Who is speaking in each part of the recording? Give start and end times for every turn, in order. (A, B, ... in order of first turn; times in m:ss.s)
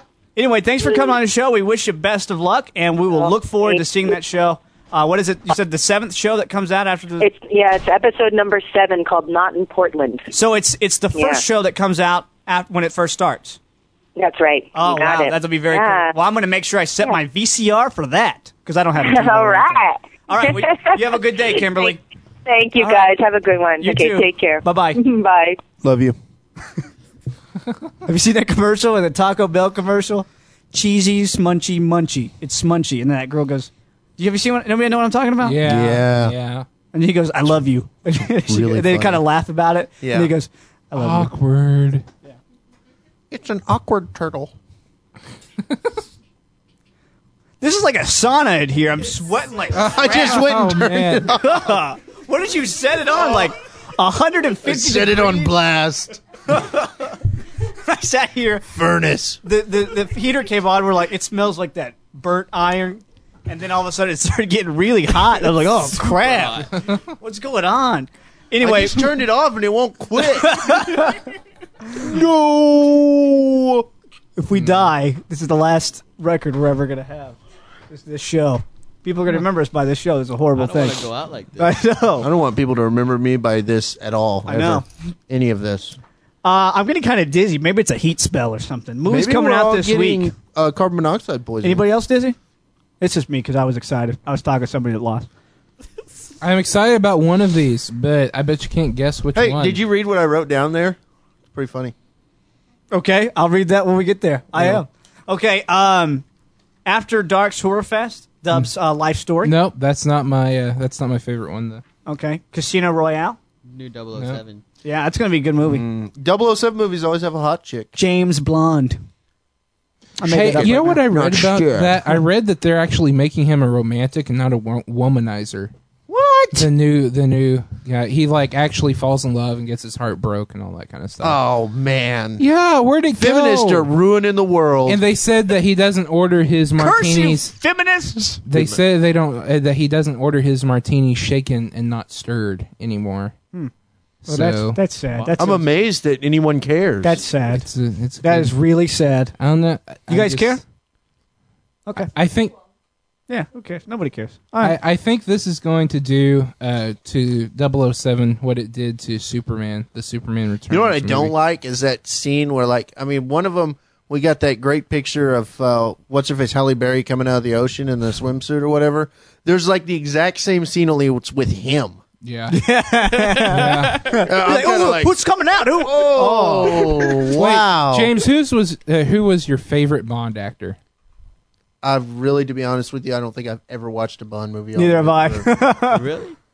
0:00.4-0:07.3 A
0:03.1-0:03.8 B
0:07.2-0:10.3 B
0:10.3-0:13.6 A
0:11.2-0:11.4 B
0:14.2-0:16.1 B
0:14.7-0:22.0 A
0:19.0-0:25.6 B
0:22.8-0:23.1 A
0:23.8-0:25.0 A
0:25.8-0:26.2 C
0:28.0-0:35.6 A
0:35.4-0:36.7 D
0:35.6-0:36.4 C
0:36.9-0:41.3 A
0:38.5-0:39.2 C
0:40.0-0:40.3 C
0:41.0-0:42.0 D
0:43.3-0:44.5 C
0:45.7-0:46.0 D
0:47.6-0:50.4 A
0:49.7-0:51.3 D
0:49.9-0:51.8 C
0:51.4-0:55.5 A
0:54.7-0:56.2 C
0:56.5-0:58.7 A
0:58.8-0:59.4 C
0:59.4-1:09.2 A
1:05.8-1:06.7 E
1:08.6-1:11.0 C
1:10.2-1:11.3 A
1:12.0-1:13.9 C
1:14.4-1:17.4 A
1:17.9-1:22.3 A
1:20.5-1:21.8 E
1:22.2-1:26.0 C
1:24.5-1:24.8 A
1:26.4-1:30.3 A
1:29.1-1:31.8 C
1:31.6-1:32.4 A
1:33.0-1:35.3 A
1:36.4-1:39.8 D
1:39.4-1:41.0 C
1:41.5-1:41.9 C
1:42.9-1:46.2 A
1:46.9-1:49.5 A
1:49.4-1:51.8 D
1:52.1-1:53.4 A
1:53.6-1:54.6 E
1:54.1-1:54.4 D
1:54.8-1:55.8 A
1:55.7-1:58.0 C
1:58.0-1:59.0 A
2:00.2-2:05.7 D
2:00.2-2:01.0 A
2:00.5-2:02.1 C
2:06.1-2:06.7 C
2:06.5-2:11.4 D
2:11.2-2:12.4 C
2:12.4-2:13.9 D
2:13.1-2:15.0 C
2:14.9-2:17.5 D
2:16.8-2:18.4 A
2:18.4-2:23.3 D
2:18.5-2:18.8 C
2:24.2-2:25.3 D
2:24.3-2:25.6 A
2:25.4-2:27.2 C
2:27.0-2:27.6 A
2:27.5-2:28.6 D
2:28.2-2:29.3 A
2:29.4-2:30.6 D
2:30.1-2:30.6 A
2:32.0-2:32.6 D
2:33.3-2:34.8 A
2:34.6-2:41.4 D
2:40.7-2:52.0 C
2:52.2-2:52.6 D
2:52.5-2:57.3 A
2:53.5-2:54.0 D
2:54.2-2:55.2 C
2:55.8-2:58.2 C
2:57.4-3:00.8 D
3:01.8-3:05.6 C
3:04.8-3:06.1 A
3:05.9-3:06.4 E